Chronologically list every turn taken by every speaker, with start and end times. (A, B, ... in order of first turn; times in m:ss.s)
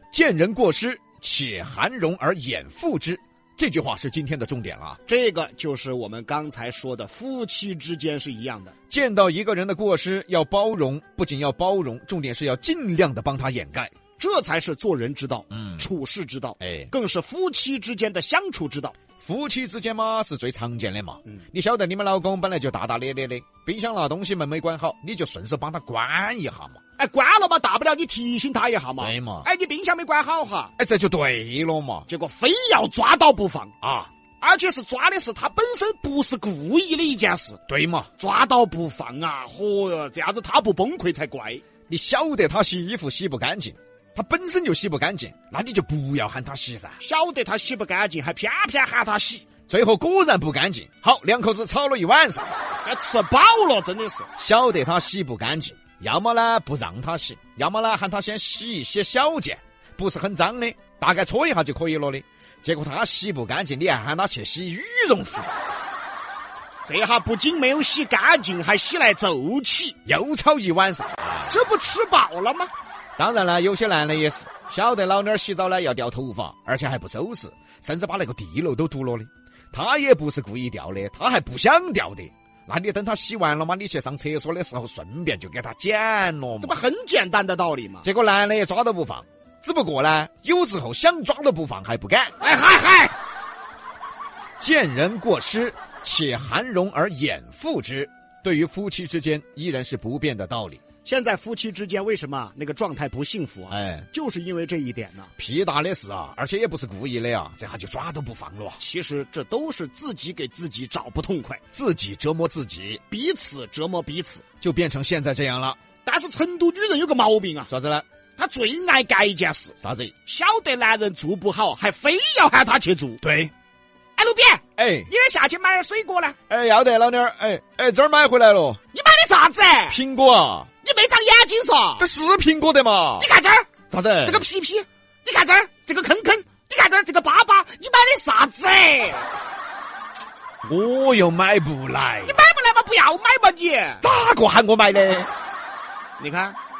0:00.1-0:05.0 A
0:05.1-0:08.7 B
0:08.9-0:13.9 A
0:14.2-0:18.9 B
0:15.5-0:15.8 A
0:16.6-0:16.9 A
0:19.2-0:26.8 A
0:27.0-0:30.7 B
0:29.0-0:29.5 A
0:30.8-0:32.1 A
0:32.1-0:33.7 B
0:33.8-0:34.1 A
0:34.4-0:37.6 B
0:37.7-0:38.1 A
0:38.2-0:41.6 B
0:41.9-0:47.0 A
0:47.0-0:49.4 B
0:49.7-0:52.5 A
0:52.8-0:54.3 B
0:54.4-1:05.5 A
1:06.8-1:09.9 B
1:10.0-1:11.6 A
1:11.5-1:12.7 B
1:13.2-1:26.8 A
1:26.6-1:28.0 B
1:28.0-1:32.4 A
1:32.4-1:33.1 B
1:34.6-1:40.8 A
1:41.0-1:45.3 B
1:43.7-1:44.1 A
1:45.4-1:48.8 A
1:48.8-1:51.6 B
1:51.7-1:53.0 A
1:53.1-1:54.4 B
1:54.6-1:55.8 A
1:56.0-1:57.7 B
1:57.7-1:58.0 A
1:58.4-1:59.7 B
1:59.8-2:00.1 A
2:00.2-2:03.2 B
2:03.2-2:03.5 A
2:04.2-2:06.4 B
2:04.8-2:05.1 A
2:06.5-2:08.8 A
2:08.9-2:10.0 B
2:09.9-2:10.7 A
2:10.8-2:12.0 B
2:12.0-2:13.3 A
2:13.2-2:13.7 B
2:13.9-2:14.4 A
2:14.2-2:19.3 B
2:20.6-2:22.4 A
2:22.2-2:24.0 B
2:24.0-2:25.3 A
2:26.2-2:26.6 B